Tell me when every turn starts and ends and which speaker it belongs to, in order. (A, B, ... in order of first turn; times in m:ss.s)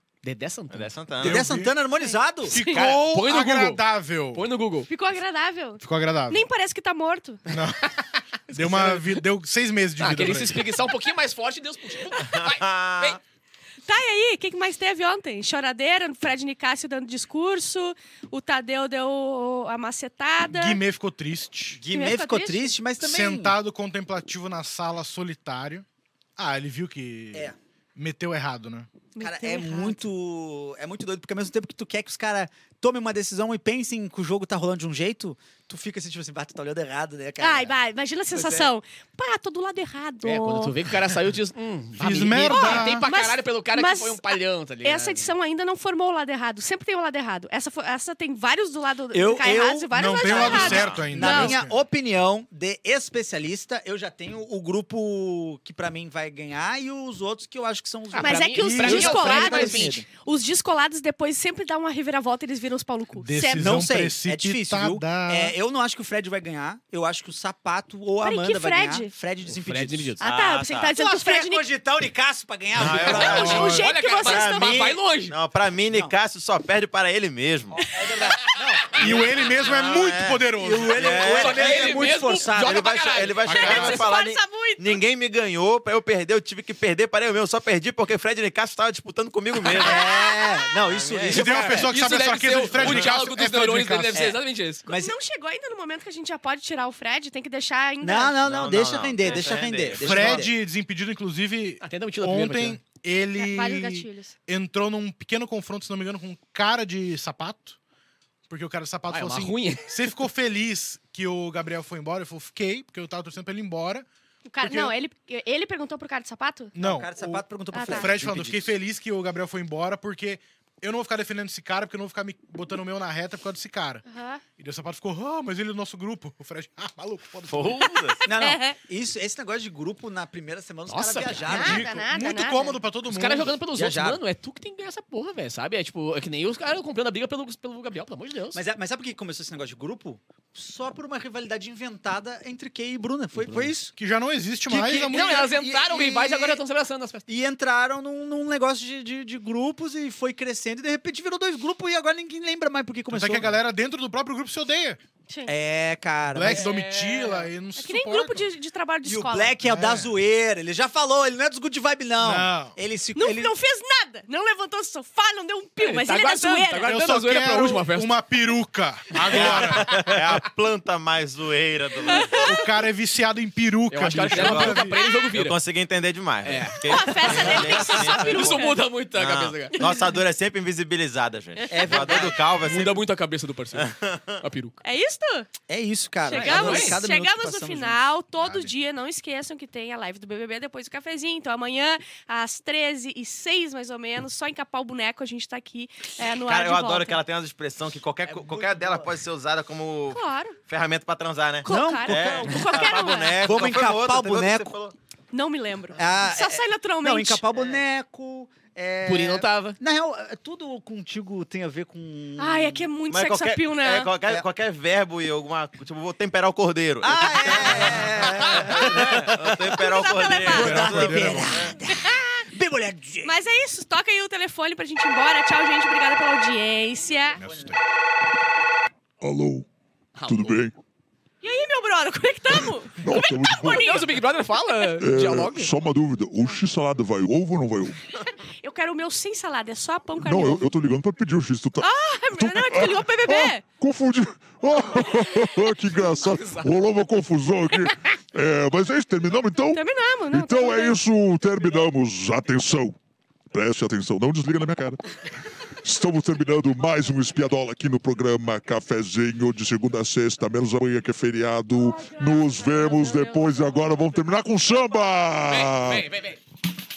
0:00.2-0:01.1 A
0:00.7-0:01.5 B
0:01.2-0:01.8 C
0:01.2-0:02.5 D
0:02.0-0:02.9 E
0:02.4-0:04.5 C
0:02.7-0:04.9 A
0:04.9-0:07.4 E
0:05.8-0:06.4 C
0:07.5-0:07.9 C
0:08.1-0:09.2 A
0:08.5-0:10.7 C
0:10.0-0:13.2 A
0:12.3-0:13.2 B
0:13.9-0:20.8 E
0:20.4-0:21.8 C
0:21.7-0:23.6 D
0:21.9-0:22.8 E
0:23.0-0:25.8 C
0:26.4-0:28.9 C
0:29.2-0:30.0 E
0:29.2-0:37.7 D
0:37.4-0:40.7 E
0:38.4-0:38.6 D
0:40.2-0:45.3 A
0:42.0-0:43.1 C
0:42.5-0:51.6 E
0:49.1-1:00.0 D
0:49.9-0:51.8 C
0:50.4-0:51.0 B
0:58.1-1:00.0 A
0:58.2-1:03.8 E
0:58.6-0:59.6 C
1:03.2-1:05.6 C
1:03.6-1:10.2 D
1:08.2-1:09.1 E
1:09.5-1:10.2 A
1:10.2-1:11.6 E
1:10.2-1:10.9 B
1:10.9-1:13.6 D
1:12.8-1:17.8 B
1:12.8-1:15.4 A
1:13.1-1:13.9 C
1:13.2-1:14.7 E
1:17.7-1:19.3 D
1:19.0-1:21.2 C
1:19.0-1:30.0 B
1:20.6-1:23.0 D
1:21.3-1:24.0 A
1:23.5-1:25.0 E
1:23.6-1:23.9 C
1:29.7-1:31.6 D
1:29.8-1:30.7 E
1:30.9-1:31.5 B
1:31.3-1:34.3 C
1:31.4-1:34.8 A
1:32.7-1:33.1 B
1:34.1-1:35.2 D
1:34.9-1:38.4 E
1:38.0-1:40.5 D
1:38.4-1:40.5 B
1:40.0-1:47.8 C
1:41.8-1:42.8 A
1:43.4-1:44.4 E
1:48.5-1:54.1 C
1:49.1-1:50.1 A
1:54.4-1:56.7 E
1:54.6-1:54.9 C
1:56.7-2:04.0 C
1:56.8-1:58.8 D
1:57.7-1:58.2 E
2:04.1-2:04.4 E
2:04.6-2:08.0 C
2:07.5-2:08.2 B
2:08.2-2:08.8 E
2:08.3-2:11.9 D
2:10.9-2:11.7 A
2:11.5-2:12.8 E
2:11.5-2:13.6 C
2:13.1-2:18.6 A
2:13.7-2:14.2 D
2:18.5-2:23.9 D
2:23.9-2:25.5 C
2:24.7-2:26.6 D
2:24.9-2:27.2 A
2:27.3-2:33.5 D
2:33.1-2:35.0 C
2:35.5-2:36.7 D
2:36.3-2:38.5 C
2:36.4-2:37.5 A
2:37.8-2:39.5 E
2:39.0-2:43.5 D
2:39.6-2:40.1 C
2:42.2-2:42.8 C
2:43.1-2:46.9 E
2:45.8-2:48.2 A
2:46.8-2:50.4 C
2:49.3-2:52.4 B
2:49.3-2:50.0 A
2:52.1-2:52.6 E
2:52.4-2:55.0 C
2:53.9-2:55.6 A
2:54.3-3:03.0 B
2:54.8-2:55.3 E
2:56.4-2:59.9 A
2:56.8-2:58.8 E
2:59.7-3:00.0 E
3:01.7-3:02.4 D
3:02.6-3:04.8 A
3:03.7-3:04.4 B
3:04.8-3:05.5 E
3:05.7-3:08.0 D
3:06.3-3:17.2 E
3:06.3-3:07.0 A
3:08.4-3:08.7 C
3:16.4-3:24.9 B
3:18.2-3:19.1 D
3:20.1-3:20.6 E
3:21.6-3:23.4 E
3:21.6-3:24.7 D
3:25.3-3:27.4 E
3:25.9-3:32.9 D
3:29.0-3:29.8 A
3:32.4-3:34.1 E
3:33.1-3:41.8 B
3:37.0-3:39.6 D
3:39.7-3:40.8 E
3:40.4-3:41.7 C
3:40.4-3:43.4 D
3:41.9-3:42.4 E
3:43.2-3:47.4 E
3:47.4-3:47.8 D
3:47.4-3:47.8 C
3:49.2-3:49.7 F
3:50.2-3:50.6 A
3:50.2-3:50.7 F
3:51.4-3:54.1 E
3:53.0-3:54.2 F
3:53.6-3:55.7 A
3:55.0-3:58.0 F
3:58.6-4:00.7 E
4:00.2-4:13.0 F
4:01.8-4:03.6 E
4:06.2-4:06.7 A
4:09.7-4:11.0 E
4:13.5-4:26.1 F
4:21.7-4:24.2 E
4:25.5-4:26.4 A